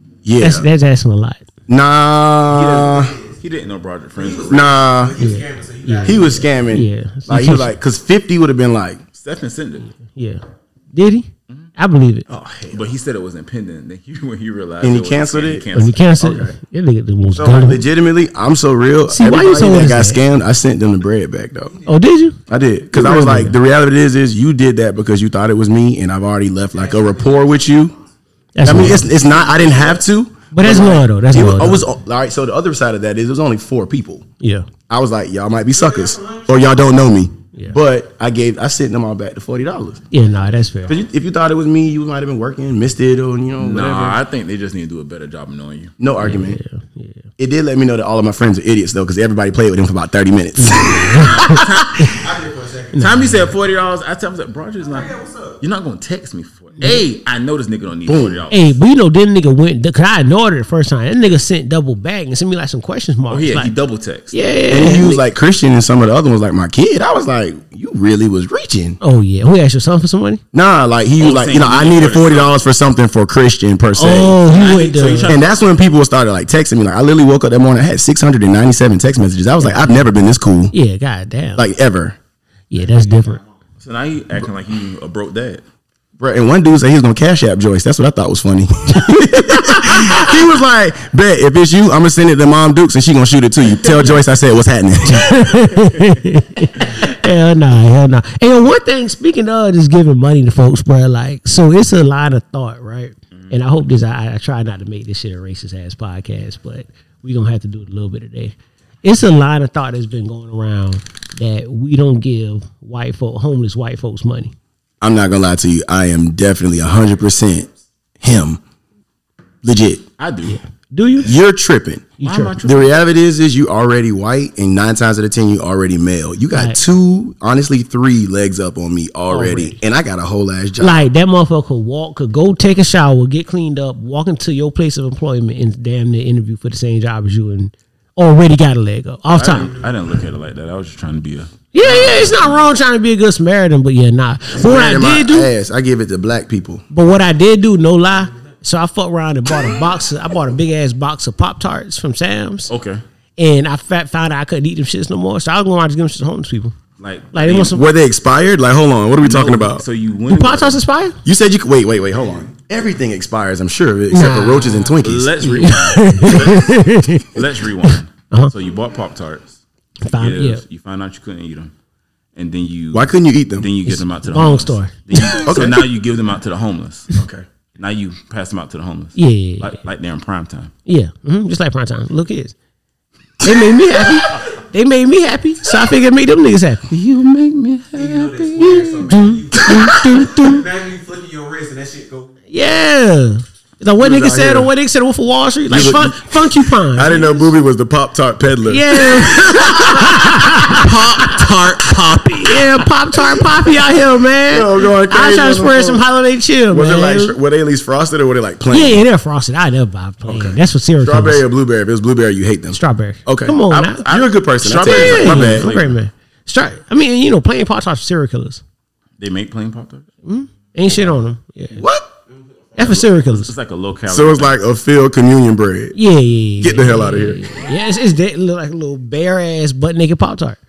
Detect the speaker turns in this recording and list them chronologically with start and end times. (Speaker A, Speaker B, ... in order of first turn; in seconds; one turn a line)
Speaker A: 0.2-0.7
Speaker B: 0.4-1.4
Speaker A: 1.7-3.2
Speaker C: 2.5-4.8
Speaker D: 2.5-3.4
Speaker D: 4.2-6.5
Speaker A: 4.5-5.2
Speaker B: 5.2-7.7
Speaker A: 6.0-9.0
Speaker C: 9.2-9.9
Speaker B: 9.9-10.4
Speaker B: 10.9-12.3
Speaker A: 12.3-12.9
Speaker C: 12.7-16.1
Speaker A: 14.8-16.6
Speaker B: 15.8-17.8
Speaker A: 17.3-21.8
Speaker B: 19.1-20.2
Speaker D: 21.6-22.1
Speaker B: 21.9-22.4
Speaker A: 22.5-27.9
Speaker B: 22.9-23.6
Speaker D: 26.7-30.1
Speaker B: 28.6-29.1
Speaker A: 28.6-34.3
Speaker B: 30.5-31.9
Speaker B: 34.4-34.7
Speaker A: 34.9-40.0
Speaker D: 35.7-37.0
Speaker B: 40.1-41.0
Speaker D: 40.2-41.0
Speaker A: 40.9-44.2
Speaker C: 43.6-45.9
Speaker A: 46.0-46.6
Speaker B: 46.2-47.2
Speaker A: 47.4-51.7
Speaker B: 50.6-52.1
Speaker C: 51.2-52.2
Speaker D: 52.0-53.5
Speaker C: 53.0-58.8
Speaker D: 54.8-55.6
Speaker A: 58.1-58.4
Speaker B: 58.5-63.7
Speaker C: 63.3-64.4
Speaker B: 64.3-65.2
Speaker A: 64.7-69.0
Speaker B: 69.0-70.4
Speaker A: 70.5-74.5
Speaker C: 71.2-72.6
Speaker B: 74.0-75.4
Speaker C: 74.3-75.5
Speaker A: 75.2-80.7
Speaker B: 80.7-81.6
Speaker A: 81.6-82.2
Speaker B: 82.7-83.4
Speaker D: 82.7-83.6
Speaker C: 83.8-85.6
Speaker A: 86.2-95.5
Speaker B: 88.9-90.3
Speaker C: 93.9-94.2
Speaker B: 95.1-114.5
Speaker A: 115.0-117.7
Speaker D: 116.9-117.7
Speaker A: 118.2-118.6
Speaker A: 119.6-120.1
Speaker C: 120.2-120.6
Speaker B: 120.5-121.4
Speaker A: 121.2-131.1
Speaker B: 122.2-122.6
Speaker C: 122.2-123.0
Speaker B: 126.5-126.8
Speaker B: 129.3-129.8
Speaker B: 130.8-139.7
Speaker C: 139.3-141.5
Speaker D: 139.5-140.1
Speaker B: 141.7-145.5
Speaker D: 141.8-142.2
Speaker A: 144.5-146.8
Speaker B: 146.9-152.7
Speaker C: 152.7-153.0
Speaker B: 153.4-156.8
Speaker C: 157.0-157.8
Speaker B: 157.3-157.8
Speaker A: 157.7-159.9
Speaker C: 159.2-160.8
Speaker B: 160.3-161.2
Speaker A: 161.2-165.6
Speaker D: 162.1-162.6
Speaker B: 164.1-167.3
Speaker C: 165.0-169.6
Speaker B: 170.0-170.6
Speaker C: 170.2-171.7
Speaker C: 172.3-177.2
Speaker A: 172.9-173.7
Speaker B: 173.9-175.5
Speaker A: 175.4-175.9
Speaker A: 177.1-177.4
Speaker C: 177.8-180.7
Speaker B: 179.2-179.8
Speaker B: 180.9-182.6
Speaker B: 183.4-186.8
Speaker C: 186.9-188.8
Speaker D: 187.9-192.4
Speaker B: 188.6-190.6
Speaker B: 192.5-197.4
Speaker A: 194.0-194.7
Speaker A: 195.7-201.4
Speaker B: 198.7-200.8
Speaker C: 200.7-202.7
Speaker B: 202.4-207.4
Speaker A: 204.5-206.1
Speaker A: 206.7-209.1
Speaker B: 208.7-211.4
Speaker A: 210.2-215.8
Speaker B: 212.7-214.0
Speaker C: 213.7-216.0
Speaker B: 214.8-218.6
Speaker C: 219.2-220.1
Speaker B: 220.2-221.8
Speaker A: 221.7-222.1
Speaker D: 222.3-223.2
Speaker B: 222.8-223.5
Speaker C: 222.9-224.6
Speaker A: 224.1-226.0
Speaker B: 225.9-230.6
Speaker A: 226.6-227.4